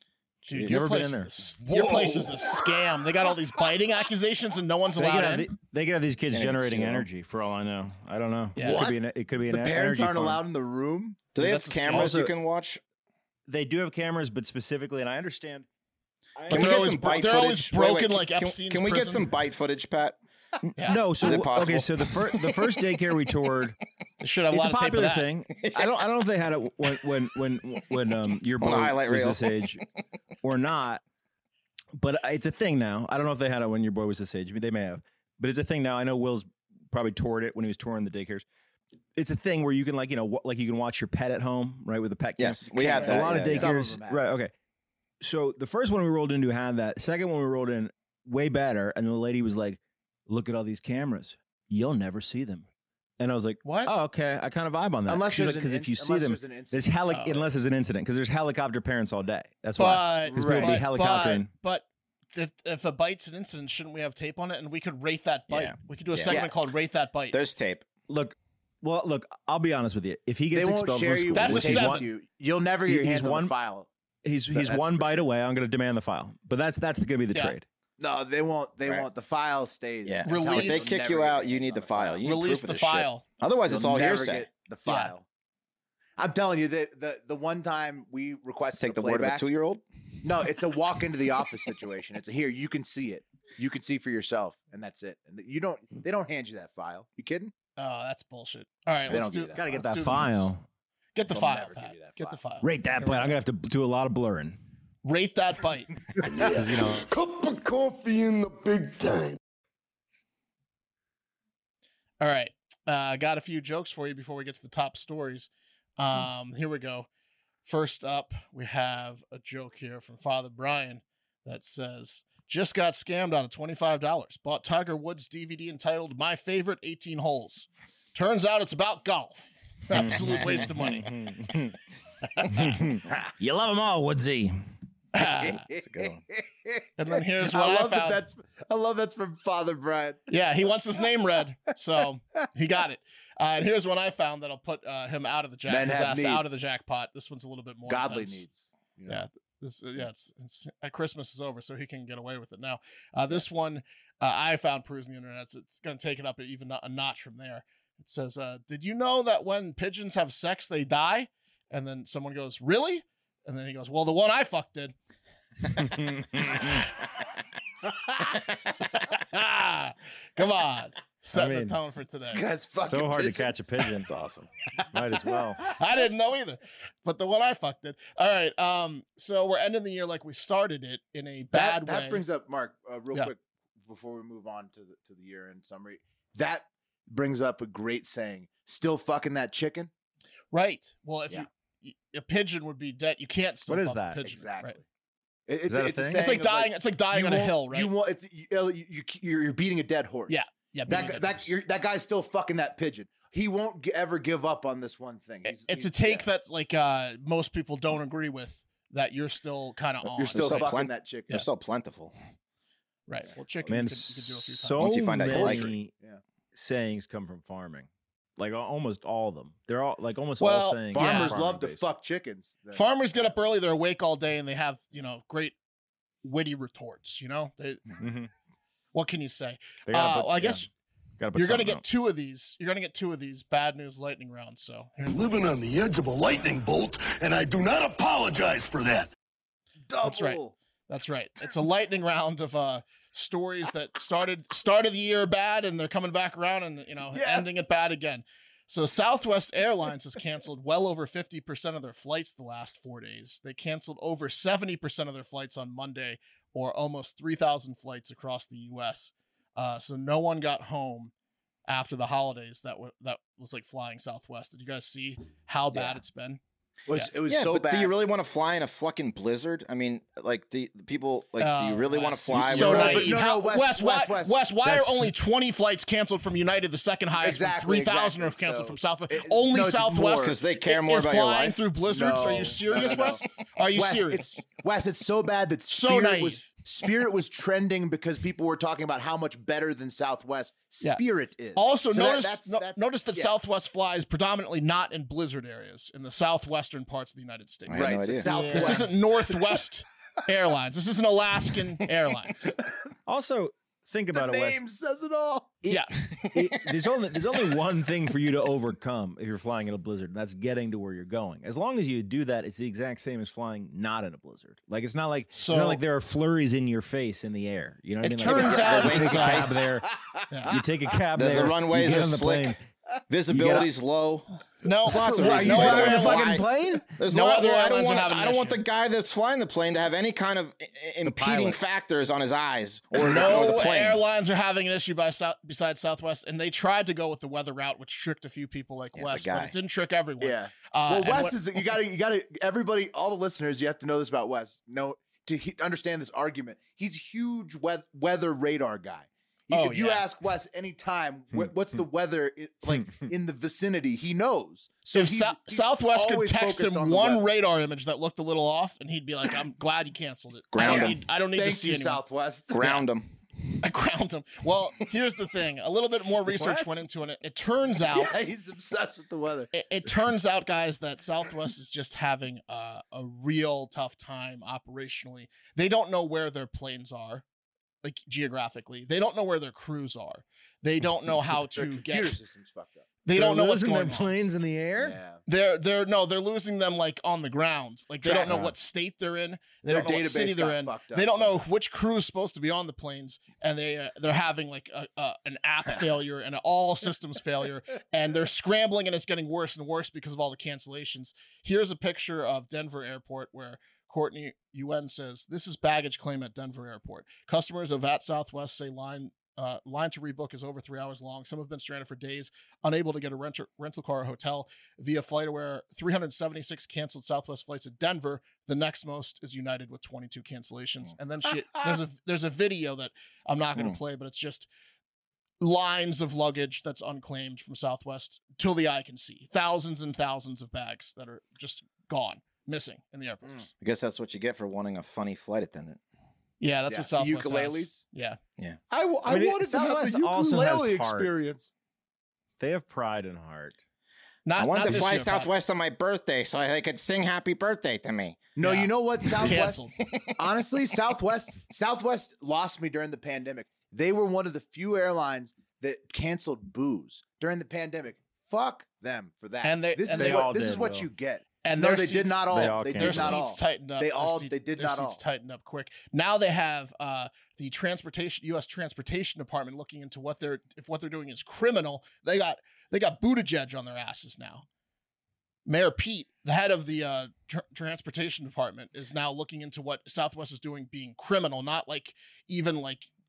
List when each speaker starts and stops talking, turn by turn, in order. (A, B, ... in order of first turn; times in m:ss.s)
0:00.5-0:05.5 A
0:00.5-0:00.8 B
0:00.5-0:01.3 C
0:01.6-0:02.7 D
0:04.9-0:10.4 C
0:06.3-0:07.1 B
0:08.6-0:08.8 A
0:08.6-0:11.3 D
0:11.3-0:12.8 B
0:11.4-0:12.2 A
0:11.9-0:12.3 C
0:13.5-0:15.7 C
0:16.4-0:17.4 C
0:16.4-0:20.2 B
0:16.5-0:19.2 A
0:20.8-0:23.8 C
0:21.2-0:22.6 B
0:24.2-0:25.3 A
0:24.5-0:29.8 C
0:25.6-0:26.0 B
0:28.3-0:29.8 B
0:30.4-0:31.0 C
0:31.9-0:38.4 C
0:39.1-0:44.5 C
0:42.4-0:43.7 B
0:42.7-0:44.3 D
0:45.2-0:52.6 C
0:53.2-1:01.5 C
0:53.6-0:53.9 A
0:55.1-0:56.8 D
0:57.1-0:57.5 A
0:59.8-1:07.4 A
1:00.3-1:00.8 D
1:05.5-1:06.4 B
1:06.3-1:06.6 D
1:07.3-1:07.8 B
1:08.1-1:12.1 C
1:10.5-1:13.9 D
1:11.3-1:12.0 A
1:12.9-1:13.5 C
1:14.2-1:17.6 C
1:14.5-1:15.3 D
1:18.0-1:22.2 D
1:20.0-1:24.5 B
1:20.2-1:20.9 A
1:22.2-1:23.2 A
1:23.6-1:25.2 D
1:24.8-1:25.1 A
1:26.2-1:29.4 D
1:28.8-1:29.8 B
1:30.2-1:37.5 D
1:37.8-1:40.5 A
1:39.1-1:39.6 D
1:39.5-1:40.6 C
1:41.1-1:43.4 A
1:41.3-1:42.4 D
1:42.6-1:44.6 C
1:45.0-1:46.0 A
1:46.2-1:49.4 E
1:46.4-1:47.0 C
1:52.2-1:57.1 A
1:57.6-2:11.1 A
2:09.9-2:11.8 C
2:12.3-2:12.8 A
2:12.4-2:14.6 C
2:15.1-2:15.6 A
2:15.2-2:20.3 D
2:15.7-2:16.2 B
2:17.0-2:18.2 A
2:20.3-2:28.4 A
2:25.7-2:26.6 D
2:27.9-2:29.2 D
2:29.1-2:44.9 A
2:45.7-2:46.9 C
2:46.5-2:46.7 A
2:48.8-2:52.4 A
2:51.3-2:51.8 C
2:52.3-2:54.0 D
2:52.8-2:54.1 C
2:54.1-2:54.5 B
2:54.9-2:55.8 C
2:55.6-3:02.2 A
3:01.5-3:09.9 D
3:10.5-3:14.8 A
3:13.7-3:14.2 C
3:14.2-3:14.8 D
3:15.5-3:26.3 D
3:15.6-3:16.2 C
3:16.1-3:17.9 A
3:20.3-3:21.5 A
3:25.4-3:30.7 A
3:30.2-3:31.4 D
3:30.3-3:32.1 B
3:33.1-3:35.6 A
3:33.6-3:35.9 C
3:34.8-3:35.7 B
3:35.3-3:36.2 D
3:36.5-3:41.8 C
3:40.4-3:41.3 A
3:40.9-3:42.8 D
3:42.7-3:45.6 A
3:46.2-3:47.8 A
3:48.0-3:48.3 C
3:48.9-3:50.7 A
3:49.9-3:50.6 C
3:51.2-3:51.8 C
3:51.3-3:55.3 A
3:55.1-3:59.1 E
3:59.9-4:00.5 D
4:00.0-4:21.1 A
4:07.1-4:07.6 D
4:21.7-4:27.1 A
4:25.7-4:26.0 D
4:26.9-4:27.9 D
4:27.2-4:33.2 B
4:31.4-4:44.3 A
4:32.3-4:34.5 D
4:34.6-4:35.0 C
4:37.2-4:40.4 D
4:40.2-4:41.6 B
4:41.9-4:53.3 D
4:45.7-4:46.4 A
4:51.5-5:02.6 A
4:57.7-4:58.9 B
4:57.7-4:59.5 D
5:03.0-5:04.6 C
5:04.1-5:05.6 D
5:05.6-5:19.9 C
5:05.7-5:06.4 A
5:15.3-5:15.8 A
5:18.0-5:19.6 A
5:18.3-5:19.0 D
5:18.3-5:19.7 B
5:19.9-5:20.6 D
5:20.5-5:22.6 C
5:21.1-5:21.6 D
5:21.1-5:22.6 B
5:23.1-5:24.3 B
5:23.3-5:23.7 C
5:24.6-5:26.4 A
5:24.8-5:34.0 B
5:24.8-5:26.9 C
5:27.1-5:28.6 A
5:31.0-5:31.6 D
5:33.0-5:41.4 A
5:33.0-5:33.5 D
5:38.9-5:39.5 B
5:40.2-5:57.2 D
5:49.5-5:50.0 A
5:54.9-6:02.0 A
6:00.5-6:01.0 B
6:00.6-6:02.8 D
6:02.5-6:03.1 B
6:03.6-6:08.2 A
6:06.3-6:06.8 C
6:07.8-6:09.5 D
6:09.5-6:17.2 A
6:17.8-6:22.2 A
6:21.5-6:22.9 D
6:23.0-6:24.1 A
6:23.1-6:25.0 C
6:24.8-6:25.2 D
6:25.2-7:04.5 A
6:28.0-6:28.5 D
6:29.6-6:31.4 D
7:05.4-7:13.5 A
7:13.6-7:15.8 B
7:16.4-7:18.2 A
7:16.7-7:17.8 D
7:18.7-7:21.5 D
7:19.0-7:21.1 C
7:22.4-7:23.6 C
7:24.2-7:25.3 A
7:24.4-7:28.3 B
7:28.4-7:29.6 D
7:28.4-7:29.8 A
7:30.2-7:45.0 D
7:39.4-7:40.3 A
7:39.9-7:40.9 C
7:41.4-7:54.4 A
7:42.3-7:43.2 C
7:55.4-8:02.9 A